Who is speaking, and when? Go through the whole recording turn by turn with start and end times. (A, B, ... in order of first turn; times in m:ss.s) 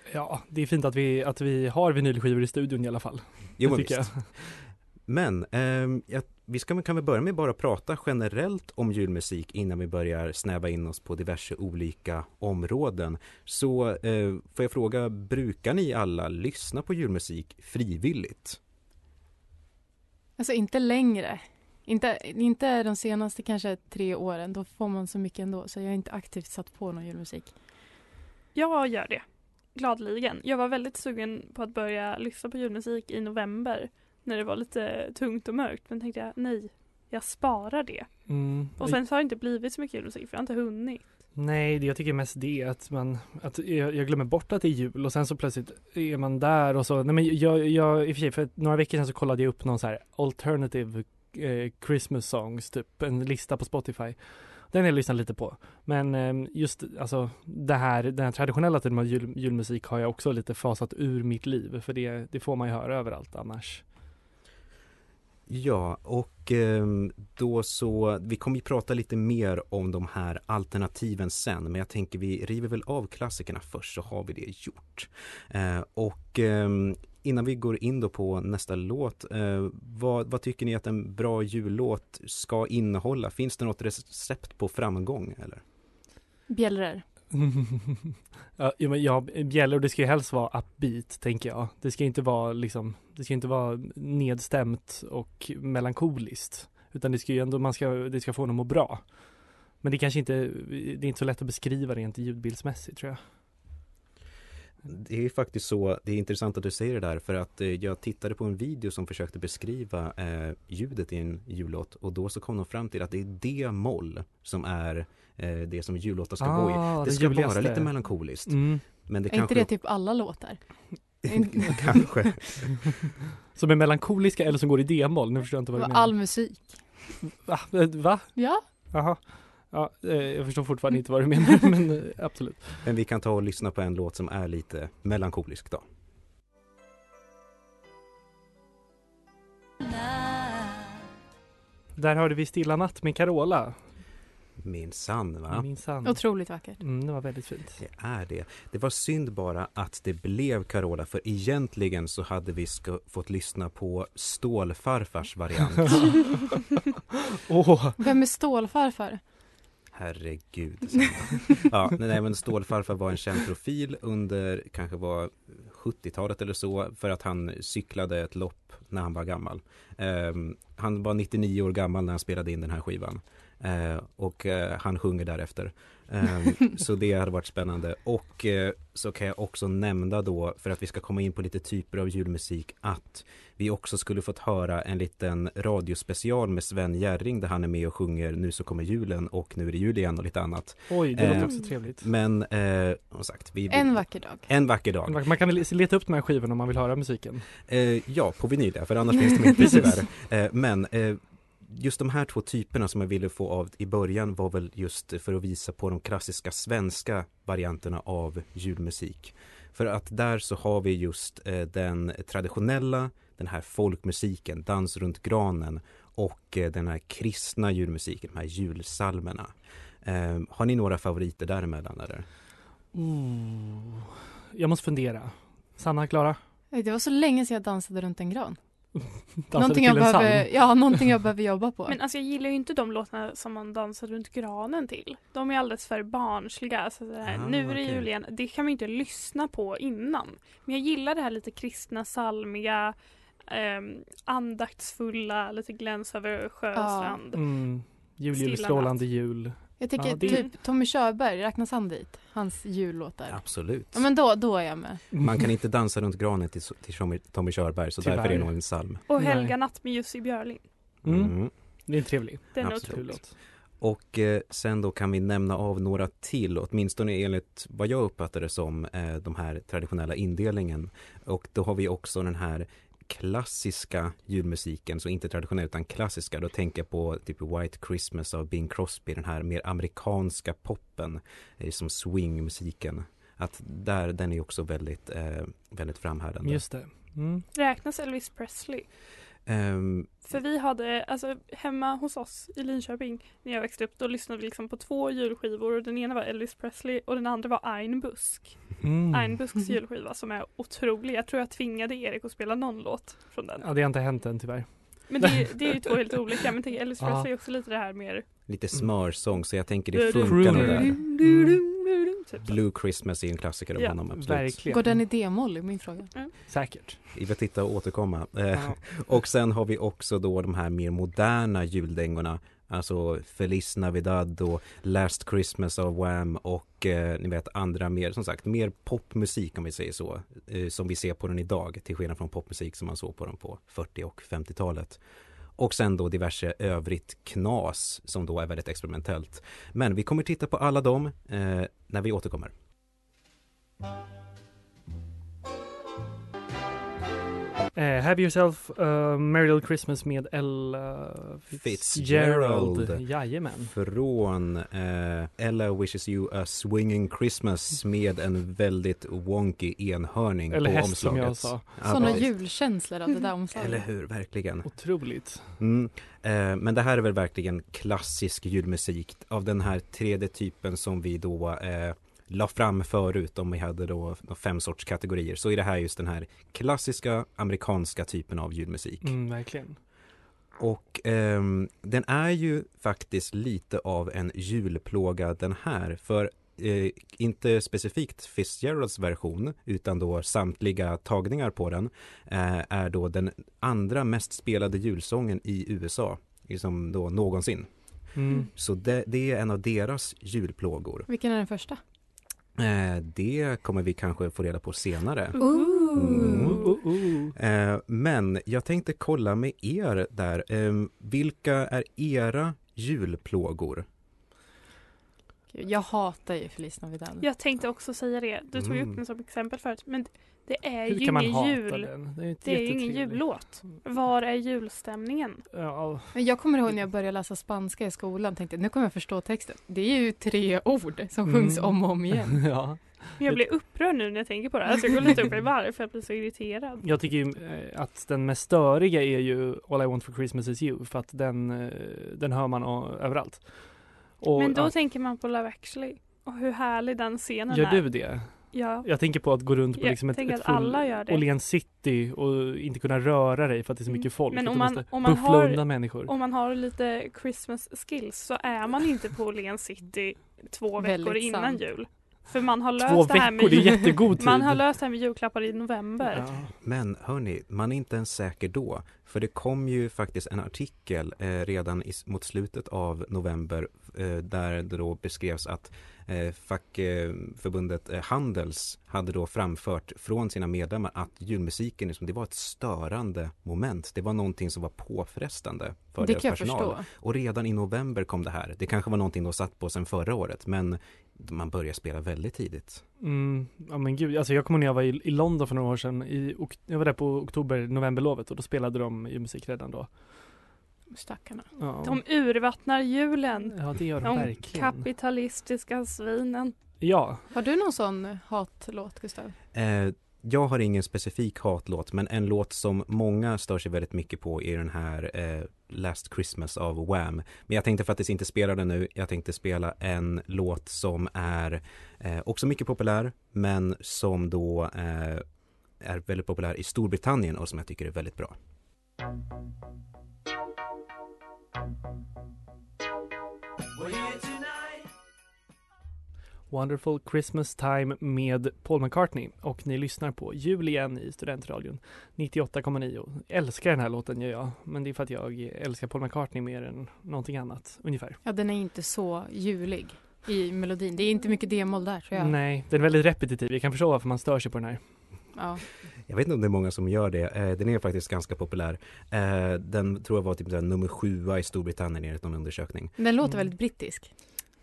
0:00.1-0:04.6 A
0:03.6-0:04.4 B
0:05.1-0:18.6 B
0:20.4-0:27.5 C
0:28.6-0:41.2 D
0:38.3-0:39.0 A
0:41.4-1:03.9 A
1:05.5-1:25.6 B
1:26.5-1:27.0 C
1:27.3-1:43.2 A
1:44.9-1:59.7 B
1:56.4-1:58.9 A
1:59.3-2:02.2 C
2:01.2-2:02.9 B
2:03.5-2:06.4 A
2:05.8-2:07.0 C
2:07.3-2:12.8 A
2:08.4-2:08.6 C
2:12.8-2:15.8 B
2:22.0-2:24.0 A
2:24.6-2:25.7 B
2:25.5-2:27.8 A
2:26.0-2:26.8 C
2:27.8-2:36.4 B
2:37.4-2:38.0 A
2:38.0-2:39.2 C
2:39.9-3:15.2 B
3:10.9-3:12.1 A
3:13.7-3:14.5 C
3:15.1-3:17.5 A
3:17.7-3:42.3 B
3:42.9-3:46.4 A
3:46.7-3:48.6 C
3:49.3-3:50.7 A
3:49.5-3:52.0 C
3:51.9-4:09.1 D
3:57.2-3:58.1 B
4:06.8-4:07.2 C
4:07.3-4:10.4 A
4:09.8-4:15.0 C
4:10.2-4:10.5 D
4:13.3-4:14.1 B
4:15.2-4:19.0 B
4:18.0-4:19.6 A
4:19.1-4:20.7 D
4:21.0-4:21.8 B
4:21.0-4:23.3 A
4:22.5-4:23.2 D
4:22.6-4:23.0 B
4:23.8-4:46.6 B
4:46.4-4:47.4 A
4:47.5-4:48.9 D
4:49.5-4:50.1 B
4:50.3-5:03.7 D
4:58.8-4:59.4 A
5:03.6-5:05.9 A
5:05.1-5:08.3 D
5:07.0-5:07.3 A
5:08.5-5:11.1 B
5:09.9-5:12.6 D
5:10.0-5:11.6 A
5:12.4-5:14.6 B
5:14.1-5:15.1 A
5:14.7-5:16.1 C
5:16.5-5:17.0 A
5:17.1-5:35.0 B
5:18.5-5:18.8 A
5:35.6-5:42.5 B
5:47.7-5:53.8 A
5:51.5-5:53.2 B
5:53.7-6:02.3 B
6:00.5-6:02.3 A
6:01.8-6:03.8 C
6:03.5-6:04.7 B
6:04.7-6:05.6 A
6:05.6-6:19.2 B
6:19.0-6:19.8 A
6:20.6-6:41.1 B
6:38.1-6:38.5 A
6:41.1-6:41.8 C
6:42.6-6:46.8 B
6:45.4-6:45.9 D
6:45.4-6:46.6 C
6:46.2-6:47.3 A
6:47.4-6:53.9 B
6:55.5-6:57.3 C
6:57.2-7:05.4 D
6:58.6-6:59.0 B
7:00.9-7:03.8 A
7:05.5-7:06.2 A
7:06.2-7:12.5 C
7:11.3-7:13.5 A
7:13.2-7:16.9 D
7:16.8-7:24.7 A
7:24.4-7:31.2 D
7:27.5-7:36.1 A
7:33.9-7:46.3 D
7:40.8-7:41.6 C
7:42.8-7:44.6 A
7:46.1-7:46.5 A
7:46.6-8:12.8 B
8:06.0-8:06.9 C
8:13.0-8:20.4 A
8:20.9-8:21.5 C
8:21.6-8:22.0 A
8:21.8-8:26.6 D
8:23.5-8:24.9 A
8:26.8-8:27.3 A
8:27.3-8:29.4 C
8:29.5-8:48.4 B
8:56.5-9:08.2 A
9:08.2-9:12.4 C
9:12.2-9:15.2 A
9:15.3-9:15.6 C
9:16.1-9:23.0 B
9:23.0-9:24.2 C